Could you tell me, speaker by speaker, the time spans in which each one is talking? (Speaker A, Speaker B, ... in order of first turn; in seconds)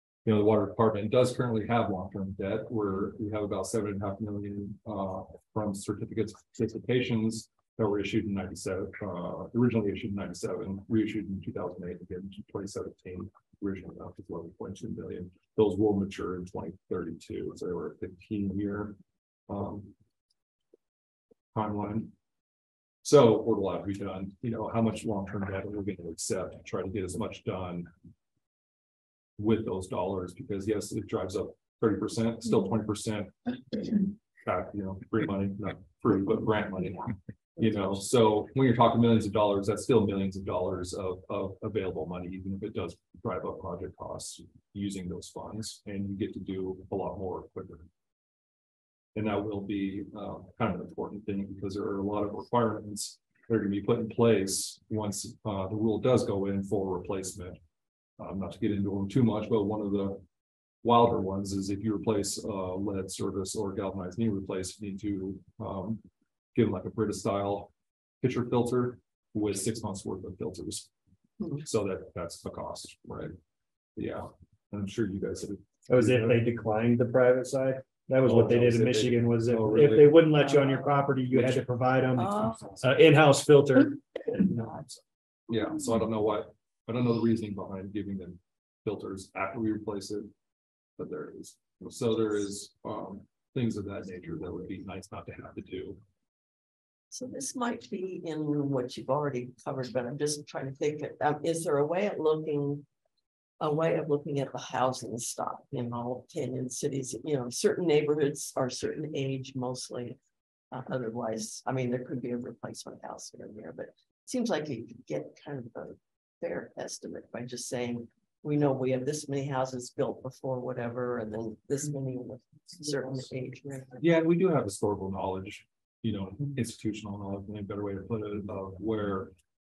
Speaker A: 0.2-19.0, 19.5-19.9, 21.5-22.1, 23.0-27.9, 29.4-33.3, 34.0-47.9, 49.1-57.6, 58.2-60.2, 60.8-66.0, 66.5-70.9, 71.6-73.3, 74.0-76.5, 78.2-80.4, 81.3-81.6, 85.5-90.3, 91.0-96.0, 124.0-129.3
Speaker B: 75.9-84.0
Speaker C: 80.4-81.0, 82.2-82.9, 97.1-102.8, 103.6-110.2, 110.7-124.1